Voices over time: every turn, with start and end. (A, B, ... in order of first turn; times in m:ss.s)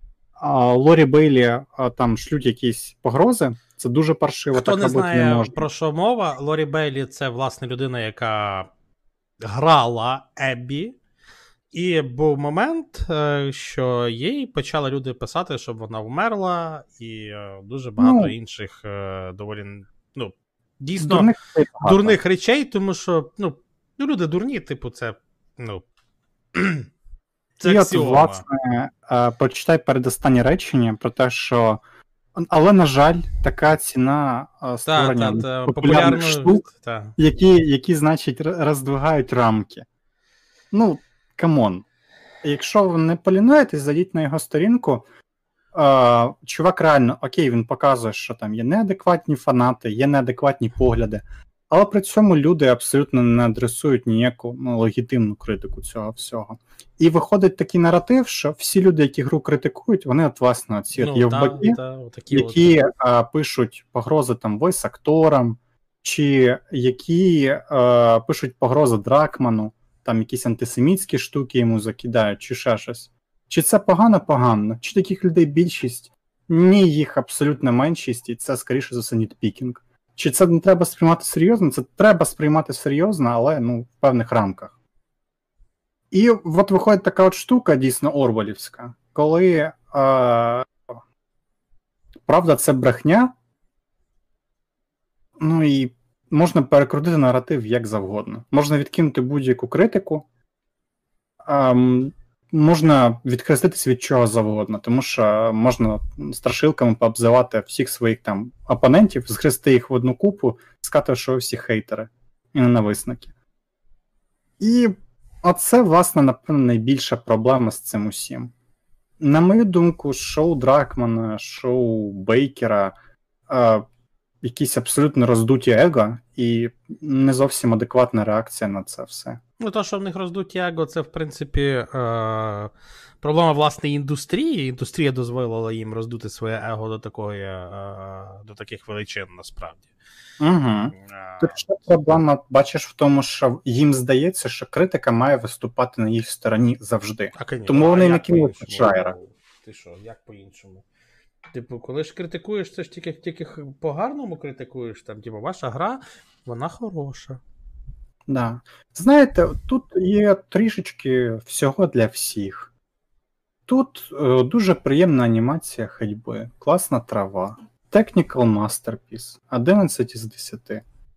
0:00.4-0:05.6 A
0:04.5-0:08.7 B
0:09.4-0:11.0 B
0:11.7-0:21.3 B
0:18.0-0:18.3 A
0:21.0-0:22.2 A
0:21.8-0:25.8 B
0:26.5-0:26.9 B
0:27.6-0:31.8 A
0:27.6-0:28.4 B
0:32.4-0:36.6 A
0:34.9-0:37.2 B
0:37.2-0:39.9 A
0:40.7-0:41.8 A
0:42.4-0:45.1 A
0:45.7-1:01.8 A
1:01.0-1:02.7 B
1:02.3-1:24.7 A
1:26.1-1:30.7 A
1:32.3-1:33.3 A
1:35.4-1:40.2 A
1:41.4-1:53.3 A
1:54.6-1:58.5 A
1:59.2-2:03.0 A
2:03.5-2:03.8 A
2:04.4-2:09.4 A
2:09.6-2:12.7 B
2:13.2-2:19.9 B
2:20.4-2:29.2 A
2:21.0-2:21.6 B
2:27.4-2:30.8 B
2:31.5-2:37.4 B
2:38.3-2:42.7 A
2:43.7-2:50.8 A